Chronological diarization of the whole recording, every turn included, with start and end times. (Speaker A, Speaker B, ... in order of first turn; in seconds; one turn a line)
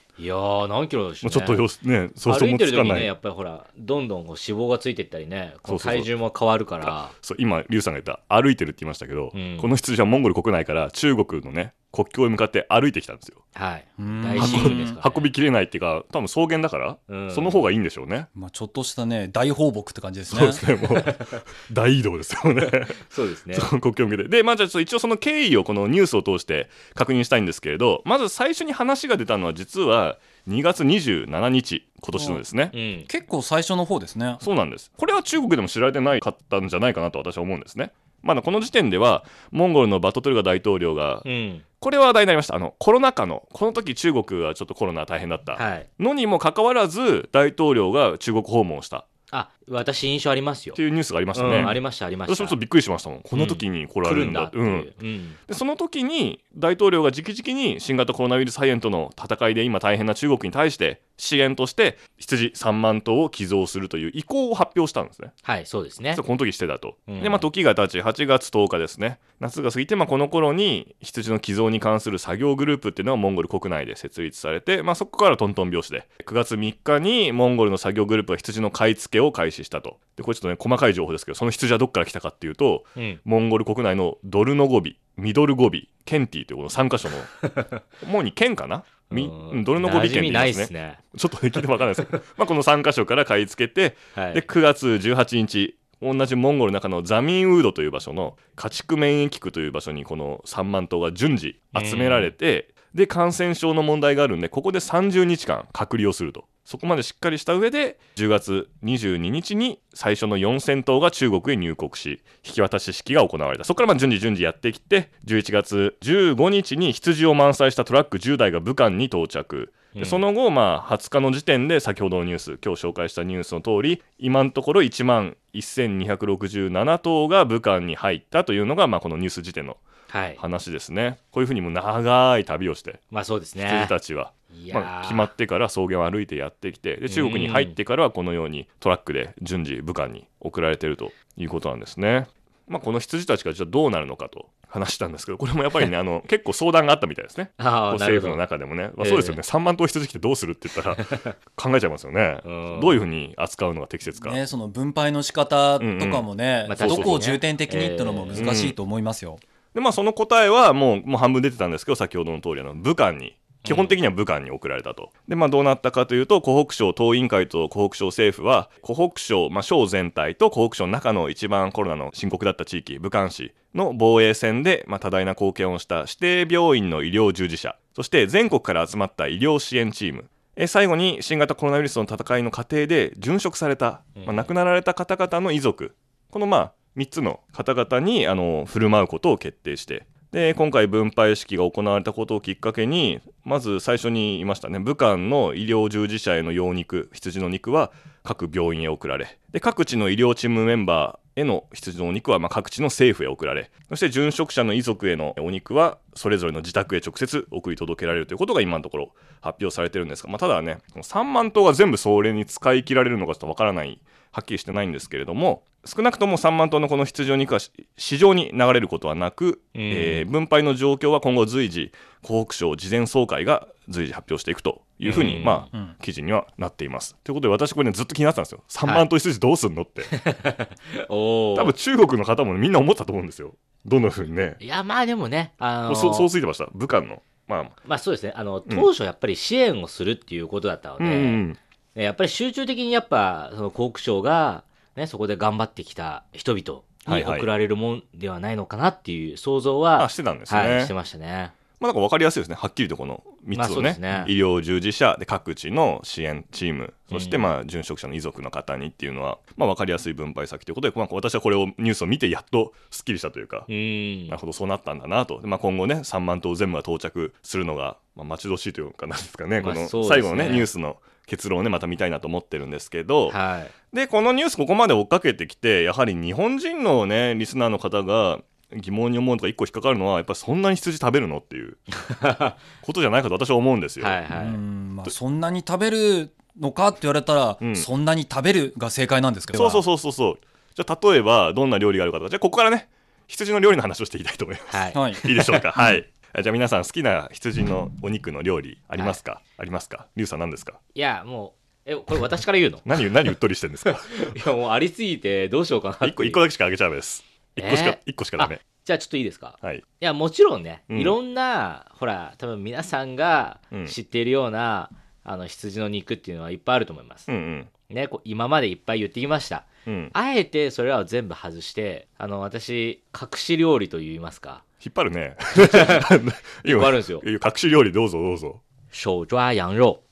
Speaker A: 0.2-1.6
Speaker B: 1.2-3.1
Speaker A: 2.3-7.1
Speaker B: 5.7-6.1
Speaker B: 6.8-13.4
Speaker A: 9.3-9.7
Speaker A: 13.6-15.3
Speaker C: 14.0-15.0
Speaker B: 14.4-18.3
Speaker A: 17.1-17.6
Speaker C: 18.4-20.6
Speaker B: 20.3-32.7
Speaker A: 21.1-21.3
Speaker A: 23.0-23.7
Speaker C: 32.1-32.4
Speaker A: 32.7-33.1
Speaker C: 33.1-34.4
Speaker B: 34.4-41.3
Speaker A: 41.2-41.6
Speaker B: 41.8-49.1
Speaker A: 45.5-45.9
Speaker A: 49.3-50.8
Speaker B: 50.8-54.9
Speaker A: 51.3-52.6
Speaker A: 53.3-55.4
Speaker B: 55.5-65.3
Speaker A: 65.4-66.2
Speaker B: 66.1-129.8
Speaker A: 67.1-67.5
Speaker A: 89.1-91.0
Speaker A: 94.2-94.4
Speaker A: 101.8-102.3
Speaker A: 120.0-120.2
Speaker A: 130.1-130.4
Speaker B: 130.4-133.0
Speaker A: 133.1-133.9
Speaker B: 133.6-154.4
Speaker A: 134.5-135.3
Speaker A: 137.1-137.8
Speaker A: 147.6-148.4
Speaker A: 149.0-149.4
Speaker A: 151.0-151.3
Speaker A: 152.4-153.0
Speaker C: 154.2-159.4
Speaker B: 155.8-157.3
Speaker A: 156.7-158.5
Speaker B: 158.3-158.8
Speaker B: 159.7-230.1
Speaker A: 163.6-164.0
Speaker A: 184.2-184.5
Speaker A: 219.8-220.3
Speaker A: 225.1-225.7
Speaker A: 230.1-231.7
Speaker B: 231.6-234.6
Speaker A: 234.6-236.3
Speaker B: 235.9-237.8
Speaker A: 237.8-241.4
Speaker B: 241.0-241.6
Speaker A: 241.9-251.5
Speaker B: 247.1-247.5
Speaker B: 250.0-250.9
Speaker B: 251.8-263.7
Speaker A: 253.5-254.3
Speaker A: 257.1-257.5
Speaker A: 263.7-264.4
Speaker B: 264.3-273.4
Speaker A: 269.6-270.7
Speaker A: 273.3-273.7
Speaker B: 273.9-281.8
Speaker A: 281.9-282.6
Speaker B: 282.8-284.3
Speaker A: 284.0-284.6
Speaker C: 284.3-289.9
Speaker B: 287.6-287.9
Speaker B: 289.5-300.8
Speaker A: 294.7-295.7
Speaker C: 294.9-295.2
Speaker A: 300.9-303.1
Speaker B: 302.9-304.2
Speaker A: 303.9-306.4
Speaker B: 306.0-308.6
Speaker A: 307.6-317.3
Speaker B: 310.9-311.2
Speaker B: 317.3-317.7
Speaker A: 317.9-324.6
Speaker B: 319.9-320.1
Speaker B: 324.8-328.6
Speaker A: 325.6-326.1
Speaker A: 326.6-327.2
Speaker A: 328.9-330.0